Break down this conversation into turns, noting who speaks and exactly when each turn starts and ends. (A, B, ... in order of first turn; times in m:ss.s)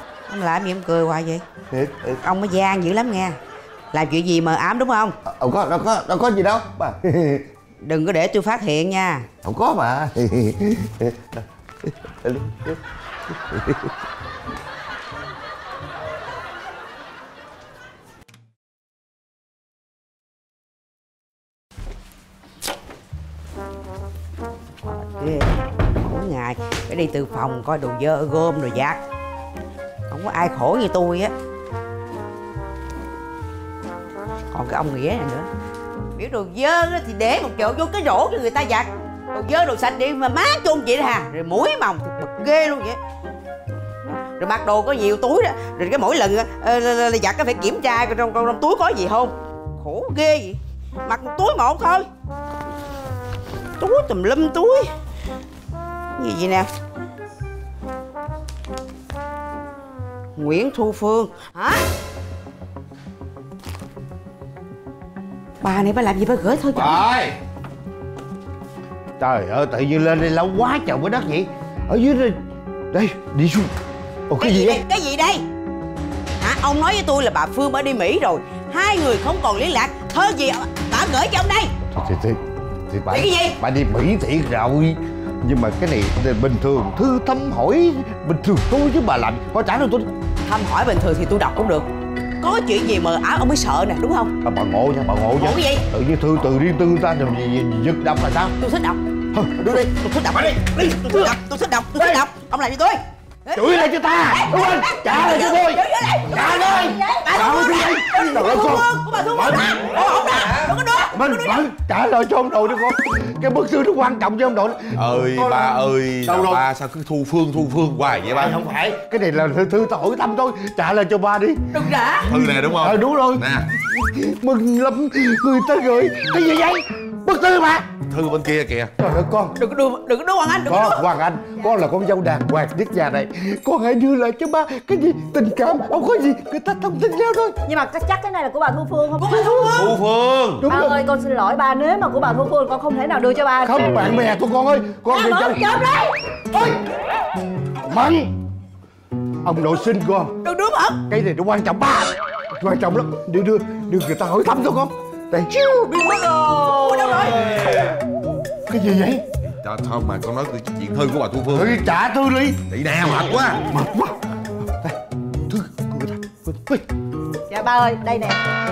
0:00.3-0:01.4 A
0:01.7-0:02.2 B
0:02.2-0:03.4 A
0:03.9-0:05.2 A
0:05.3-0:07.5 B
0:07.8-0:09.3 A
0:09.4-0:12.8 B
0:13.3-0:13.9 B
0:24.8-0:29.0 A
0:30.1-0:31.3 A
0:34.5-0:35.5 A
0:36.2-0:43.0 A
0:44.0-0:52.1 A
0:53.8-0:54.9 A
0:56.2-0:56.7 A
1:00.4-1:01.8 A
1:05.6-1:07.0 A
1:06.8-1:07.3 B
1:09.2-1:12.4 B
1:12.9-1:13.7 B
1:14.3-1:14.8 B
1:14.4-1:15.4 A
1:16.4-1:21.7 A
1:21.9-1:30.1 B
1:23.1-1:23.6 A
1:30.4-1:31.9 A
1:32.4-1:34.3 A
1:34.4-1:38.6 B
1:35.4-1:35.8 A
1:38.6-1:39.0 A
1:39.3-1:39.9 B
1:39.7-1:51.6 A
1:42.0-1:42.2 B
1:43.6-1:49.8 B
1:51.1-1:56.6 B
1:54.9-1:58.6 C
1:58.3-2:01.6 B
2:01.7-2:02.3 A
2:02.3-2:03.7 C
2:02.8-2:07.9 B
2:08.1-2:08.9 C
2:09.0-2:09.6 B
2:09.6-2:11.0 A
2:10.7-2:17.6 B
2:17.7-2:19.3 D
2:19.2-2:19.9 A
2:19.7-2:20.7 C
2:20.6-2:20.9 B
2:20.7-2:23.7 D
2:23.6-2:25.6 B
2:25.1-2:26.1 A
2:27.9-2:28.3 B
2:29.4-2:30.3 B
2:30.4-2:31.0 A
2:31.1-2:37.2 B
2:35.9-2:37.6 A
2:37.4-2:37.8 C
2:38.7-2:39.2 B
2:39.4-2:41.7 C
2:41.5-2:42.6 B
2:42.7-2:43.7 C
2:43.6-2:44.2 B
2:44.7-2:44.9 B
2:45.5-2:46.8 B
2:47.5-2:48.4 D